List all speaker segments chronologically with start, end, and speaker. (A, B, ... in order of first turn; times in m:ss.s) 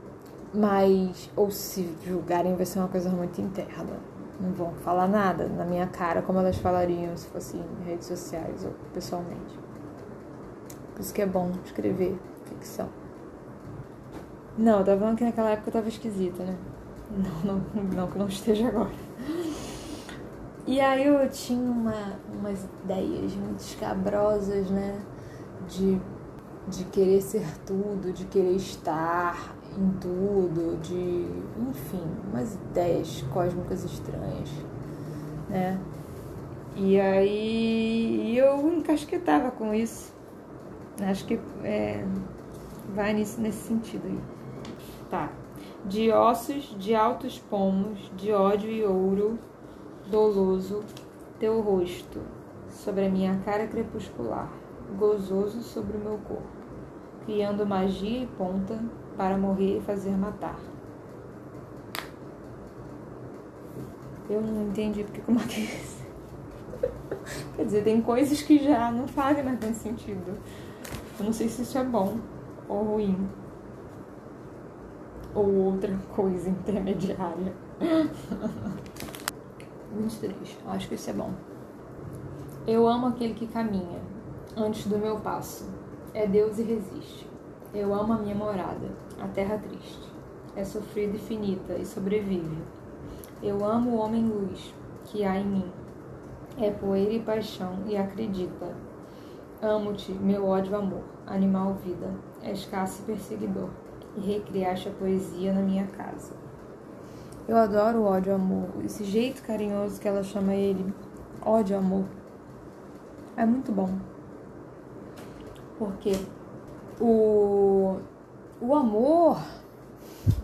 0:00.5-0:09.6 A
0:11.0-0:12.9 A
0:14.6-0:19.6 A
0:20.6-0:25.1 A
0:25.6-0:26.0 A
0:26.6-0:34.6 A
0:35.5-0:35.8 A
0:36.7-0:40.1 A
0:41.0-0:42.2 A
0:42.9-0:44.2 A
0:45.1-0:49.4 A
0:50.0-0:56.5 A
0:57.2-1:00.7 A
1:04.3-1:06.1 A
1:07.5-1:10.4 A
1:11.1-1:13.4 A
1:15.3-1:18.8 A
1:19.9-1:21.4 A
1:22.7-1:32.7 A
1:33.4-1:35.8 A
1:36.6-1:38.8 A
1:39.6-1:46.4 A
1:47.5-1:52.1 A
1:53.4-1:54.0 A
1:55.8-1:56.2 A
1:57.0-1:58.0 A
1:58.6-1:59.4 A